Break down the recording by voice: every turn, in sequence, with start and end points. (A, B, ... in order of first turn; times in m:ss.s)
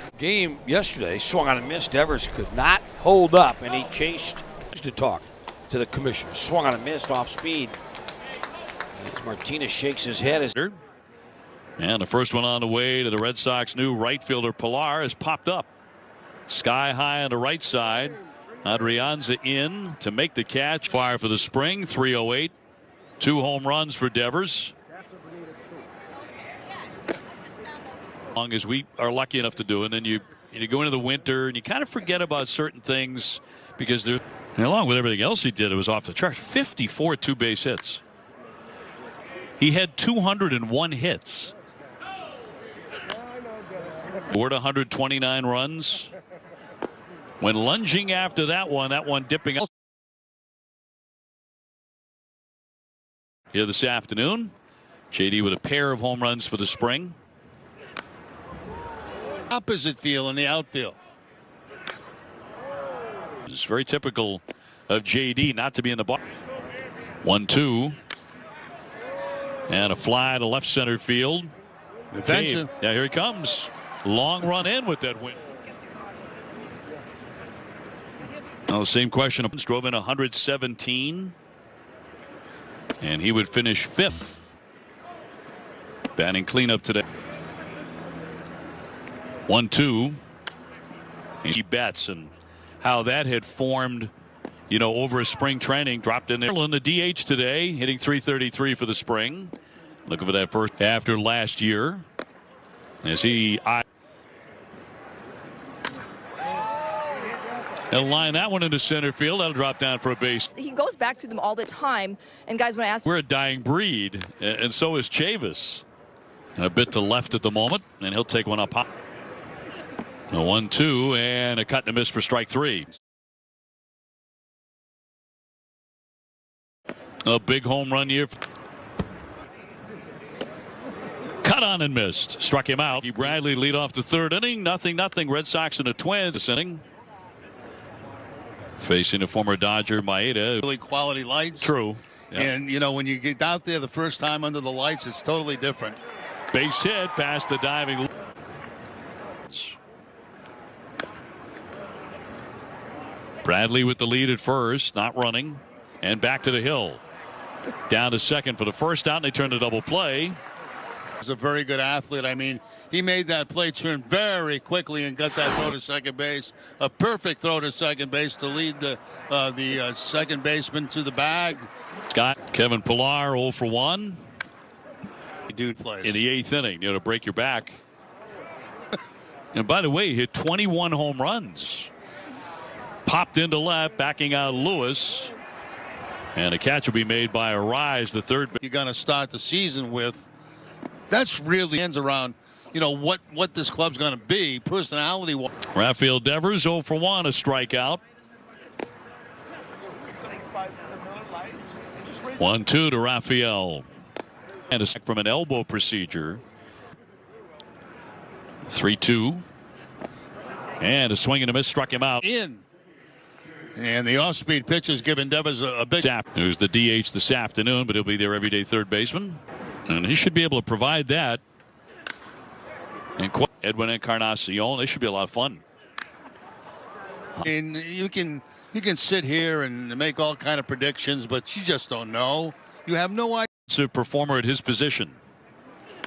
0:00.2-0:07.8 A
0:09.0-0:10.5 A
0:11.8-0:15.7 B
0:16.5-0:22.5 B
0:23.2-0:24.7 B
0:28.4-0:38.0 B
0:39.6-0:41.5 B
0:44.3-0:46.1 B
0:47.4-0:49.7 B
0:53.5-0:54.5 B
0:55.1-0:57.2 B
0:59.5-1:01.0 C
1:03.5-1:06.2 B
1:07.2-1:08.0 B
1:09.7-1:11.5 B
1:12.1-1:12.7 C
1:12.2-1:15.4 B
1:18.7-1:21.3 B
1:23.0-1:24.2 B
1:26.2-1:27.0 B
1:29.5-1:30.2 B
1:31.4-1:34.1 B
1:34.7-1:39.5 B
1:40.1-1:42.0 B
1:43.0-1:43.8 B
1:47.9-1:50.5 B
1:50.5-1:53.1 D
1:53.1-1:55.8 B
1:56.6-1:58.8 B
2:00.3-2:03.0 B
2:07.2-2:08.4 B
2:11.4-2:16.8 B
2:18.8-2:20.6 B
2:20.6-2:21.7 C
2:21.6-2:22.5 B
2:22.4-2:26.0 C
2:26.5-2:28.1 B
2:29.5-2:29.8 B
2:33.4-2:37.0 B
2:37.9-2:40.4 B
2:41.2-2:51.7 C
2:52.1-2:54.2 B
2:55.5-2:56.2 C
2:56.0-2:57.8 B
2:59.5-3:01.9 B
3:03.1-3:05.3 B
3:06.4-3:08.6 B
3:08.6-3:10.3 C
3:11.1-3:15.5 C
3:15.7-3:18.0 B
3:22.4-3:23.9 B
3:24.7-3:26.4 B
3:28.7-3:29.4 B
3:30.8-3:32.2 B
3:32.2-3:32.6 C
3:33.8-3:36.1 C
3:36.0-3:41.4 B
3:43.2-3:45.6 B
3:47.4-3:53.5 C
3:53.7-3:55.2 B